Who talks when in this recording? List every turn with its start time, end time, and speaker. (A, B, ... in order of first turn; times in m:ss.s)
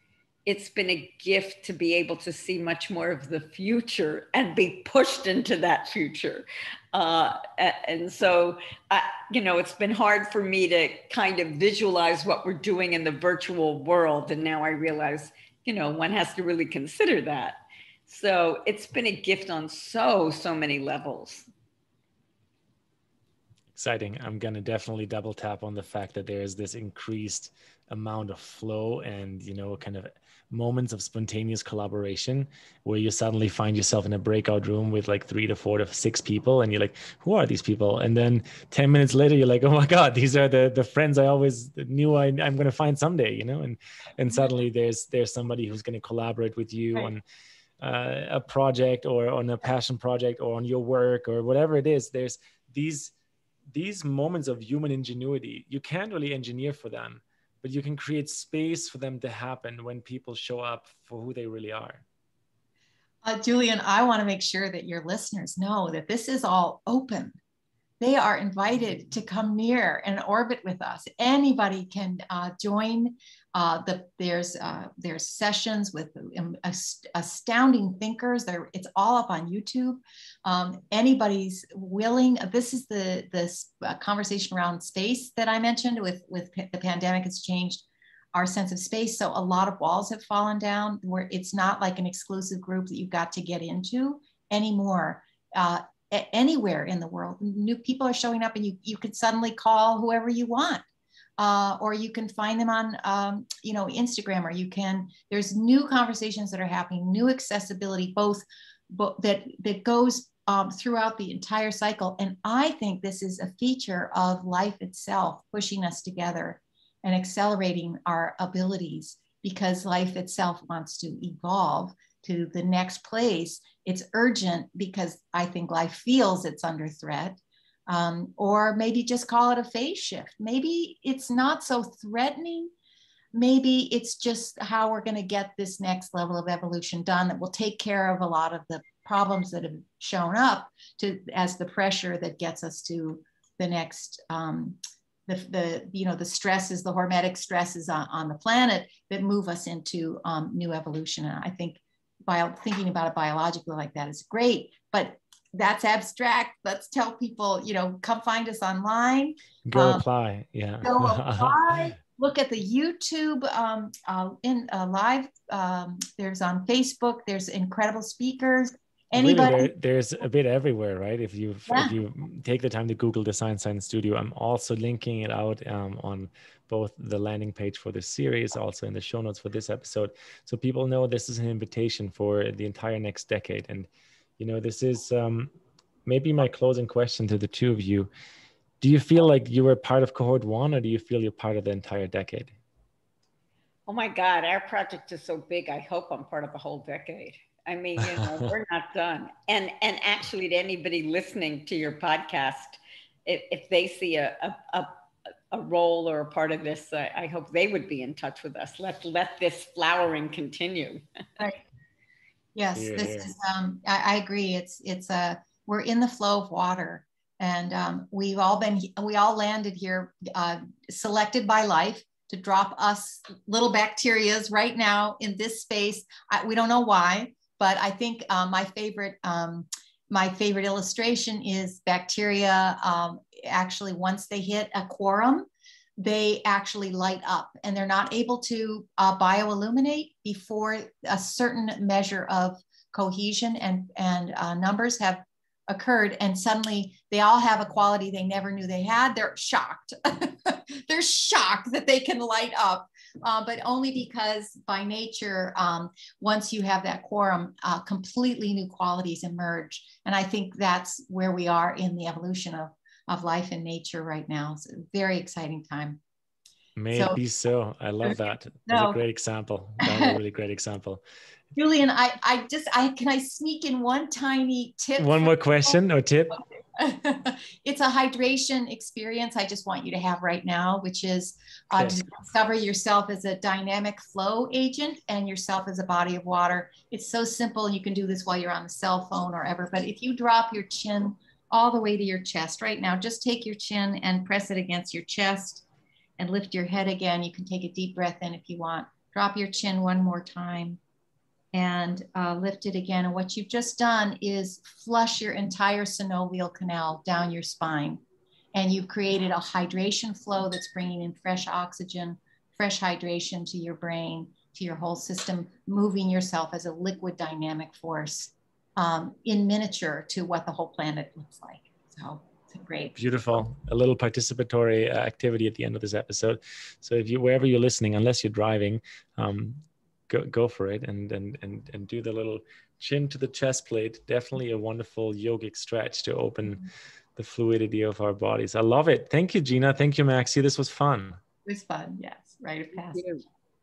0:00.5-0:21.5 A
0:23.8-0:47.2 B
0:47.8-0:53.1 B
0:53.7-1:02.0 B
1:03.2-1:07.3 C
1:08.0-1:40.8 C
1:41.4-2:12.7 C
2:13.3-2:40.0 C
2:39.7-2:41.6 B
2:40.8-2:49.7 C
2:49.2-3:05.5 B
2:51.7-2:52.0 C
3:06.1-3:08.1 B
3:08.8-3:12.5 B
3:13.9-3:31.0 A
3:32.6-3:55.5 C
3:32.8-3:33.3 B
3:56.0-4:26.0 C
4:26.8-4:31.0 B
4:26.9-4:27.2 C
4:28.7-4:29.0 C
4:29.8-4:30.2 C
4:31.6-4:35.8 C
4:35.0-4:36.4 B
4:36.4-4:55.6 C
4:41.7-4:42.0 B
4:56.2-5:00.8 C
5:01.5-5:08.0 C
5:08.5-5:23.0 C
5:23.0-5:41.2 B
5:41.4-5:43.0 C
5:42.9-5:43.2 A